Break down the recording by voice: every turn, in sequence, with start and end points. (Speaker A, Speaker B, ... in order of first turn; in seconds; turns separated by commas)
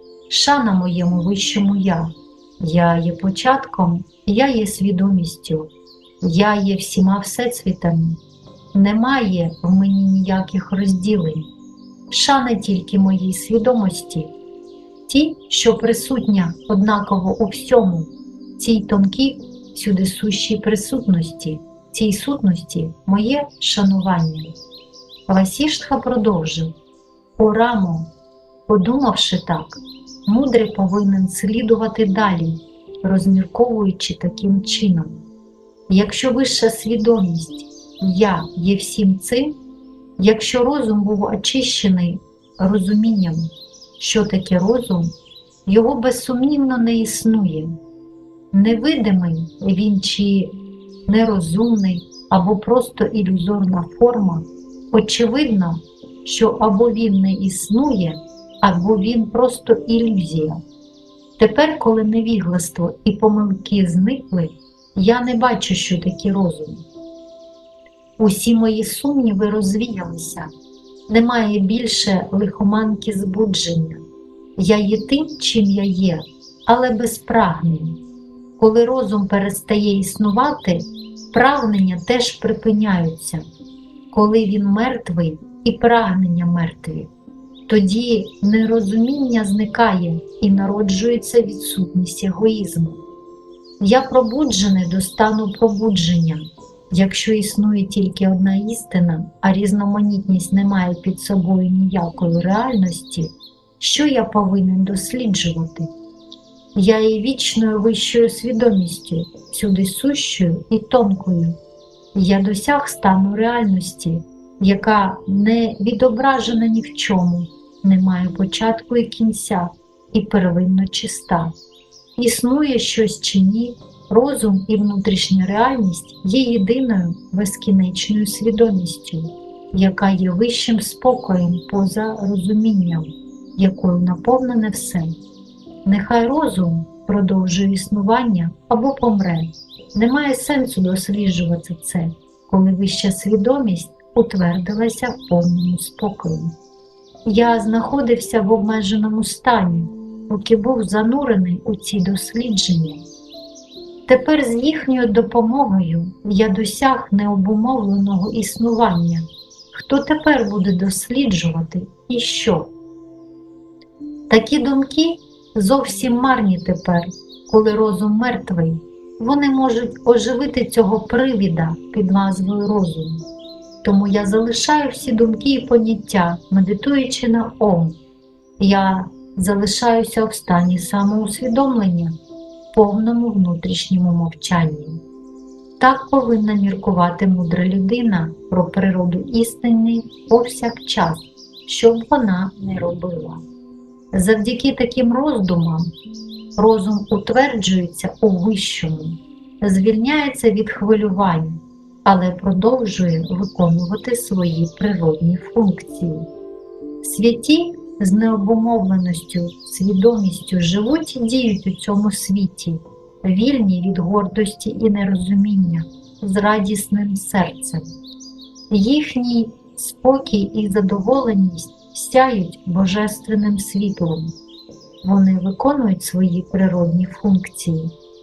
Speaker A: 0.3-8.2, Speaker A: 8.7-11.5, Speaker A: 12.1-14.3, Speaker A: 15.1-24.5, Speaker A: 25.3-26.7, Speaker A: 27.4-28.1, Speaker A: 28.7-35.3, Speaker A: 35.9-39.6, Speaker A: 40.2-45.1, Speaker A: 45.7-47.8, Speaker A: 48.5-50.5, Speaker A: 51.1-60.6, Speaker A: 61.4-66.9, Speaker A: 68.2-70.5, Speaker A: 71.1-74.0, Speaker A: 74.6-78.0, Speaker A: 78.6-83.5, Speaker A: 84.1-87.1, Speaker A: 87.7-93.0, Speaker A: 93.8-105.9, Speaker A: 106.8-111.6, Speaker A: 112.1-121.5, Speaker A: 122.2-135.2, Speaker A: 135.8-146.6, Speaker A: 147.3-153.1, Speaker A: 154.1-162.7, Speaker A: 164.3-173.2, Speaker A: 173.8-178.0, Speaker A: 178.6-182.2, Speaker A: 182.7-185.0, Speaker A: 185.8-193.4, Speaker A: 194.1-195.9, Speaker A: 196.6-206.3, Speaker A: 207.0-217.9, Speaker A: 218.7-224.4, Speaker A: 225.0-227.9